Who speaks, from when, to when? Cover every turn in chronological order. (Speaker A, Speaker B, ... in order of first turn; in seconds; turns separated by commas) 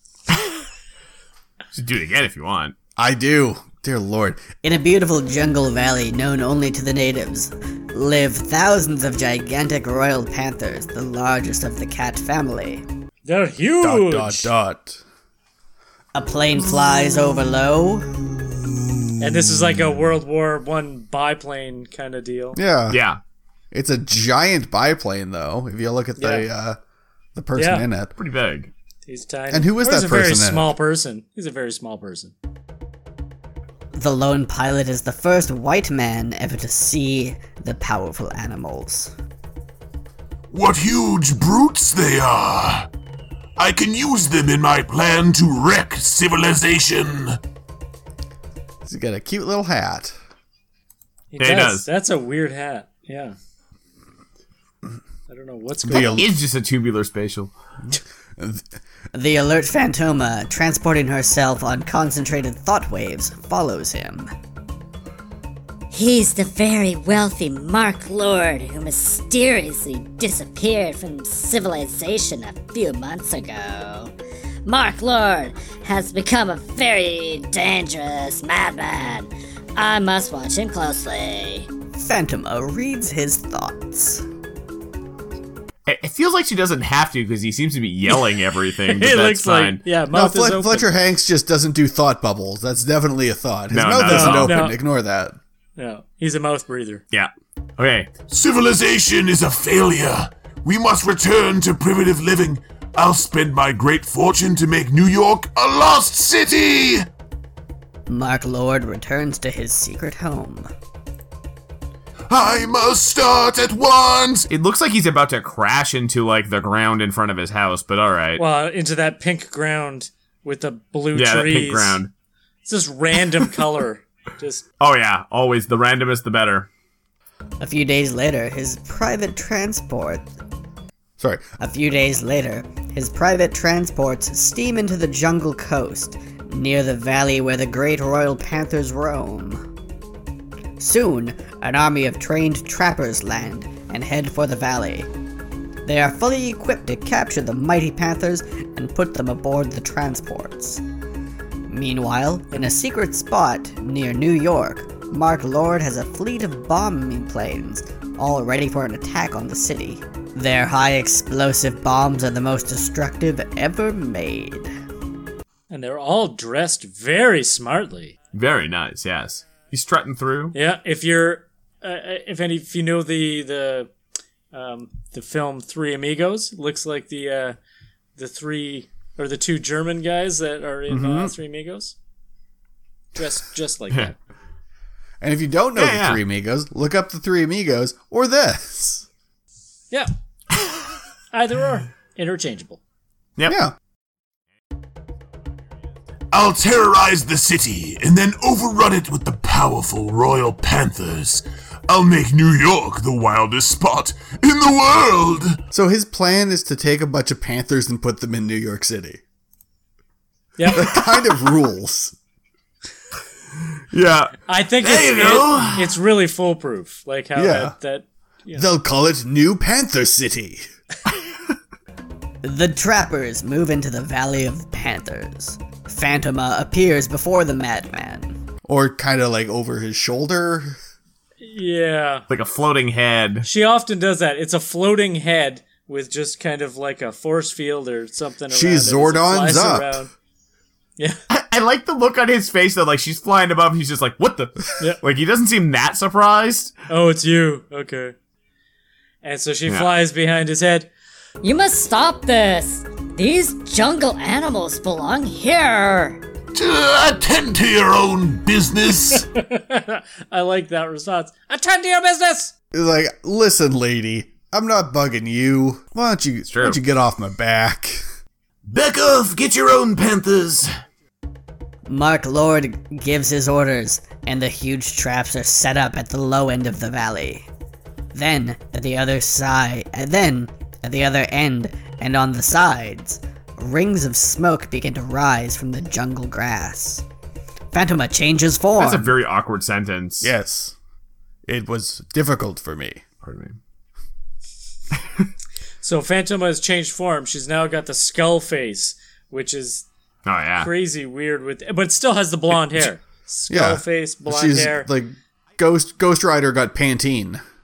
Speaker A: 1.7-2.7, Speaker B: 3.0-4.5, Speaker C: 4.6-12.8, Speaker D: 13.2-14.5, Speaker B: 13.8-15.0, Speaker C: 16.1-18.1, Speaker D: 19.2-22.6, Speaker B: 22.5-23.0, Speaker A: 22.9-23.2, Speaker B: 23.7-26.8, Speaker D: 26.2-26.5, Speaker B: 27.3-28.1, Speaker D: 27.6-27.9, Speaker A: 28.2-28.7, Speaker D: 29.1-32.3, Speaker B: 29.5-30.7, Speaker C: 34.0-39.1, Speaker E: 40.5-42.9, Speaker E: 43.6-47.4, Speaker B: 48.8-50.1, Speaker D: 51.3-53.4, Speaker A: 51.4-51.9, Speaker D: 55.3-56.2, Speaker B: 55.9-56.3, Speaker A: 55.9-57.5, Speaker B: 57.9-58.6, Speaker C: 59.1-64.3, Speaker F: 65.9-74.1, Speaker F: 74.7-81.7, Speaker C: 82.0-84.2, Speaker A: 85.9-89.8, Speaker D: 88.9-90.9, Speaker B: 90.1-95.4, Speaker A: 93.7-94.7, Speaker D: 94.0-94.8, Speaker D: 95.8-97.0, Speaker A: 97.1-98.1, Speaker E: 98.3-107.0, Speaker C: 108.1-110.7, Speaker E: 112.3-114.5, Speaker A: 114.5-118.4, Speaker D: 118.4-122.0, Speaker A: 121.1-122.1, Speaker D: 122.7-124.6, Speaker A: 124.8-126.7, Speaker C: 127.6-130.3, Speaker B: 131.2-131.4, Speaker C: 131.6-139.6, Speaker C: 140.8-145.1, Speaker C: 145.8-150.8, Speaker C: 151.7-164.7, Speaker D: 165.7-168.2, Speaker A: 168.3-170.5, Speaker D: 170.5-173.9, Speaker D: 174.5-177.6, Speaker D: 178.2-181.9, Speaker B: 180.9-181.3, Speaker D: 183.1-184.2, Speaker B: 185.2-189.1, Speaker A: 185.8-186.2, Speaker D: 191.3-192.8, Speaker B: 193.5-193.7, Speaker E: 196.3-205.6, Speaker B: 205.7-209.2, Speaker D: 210.6-210.9, Speaker B: 210.7-212.2, Speaker A: 213.9-214.3, Speaker D: 214.5-218.6, Speaker E: 214.8-215.8, Speaker B: 217.3-217.7, Speaker B: 218.5-220.7, Speaker C: 222.4-228.4, Speaker B: 228.6-230.8, Speaker D: 231.4-232.2, Speaker A: 232.3-233.5, Speaker D: 233.4-240.1, Speaker B: 238.5-240.0, Speaker A: 241.3-246.7, Speaker D: 246.9-248.2, Speaker D: 249.2-250.9, Speaker F: 251.4-256.2, Speaker E: 256.5-259.2, Speaker D: 259.1-262.5, Speaker B: 262.7-268.0, Speaker A: 266.5-266.8, Speaker E: 268.7-270.7, Speaker C: 271.9-277.5, Speaker C: 278.1-287.0, Speaker C: 287.7-289.1, Speaker A: 288.8-290.3, Speaker B: 290.2-290.7, Speaker B: 291.4-293.0, Speaker A: 293.2-293.6, Speaker D: 295.8-299.9, Speaker A: 300.2-300.7, Speaker D: 300.6-304.9, Speaker B: 303.5-307.4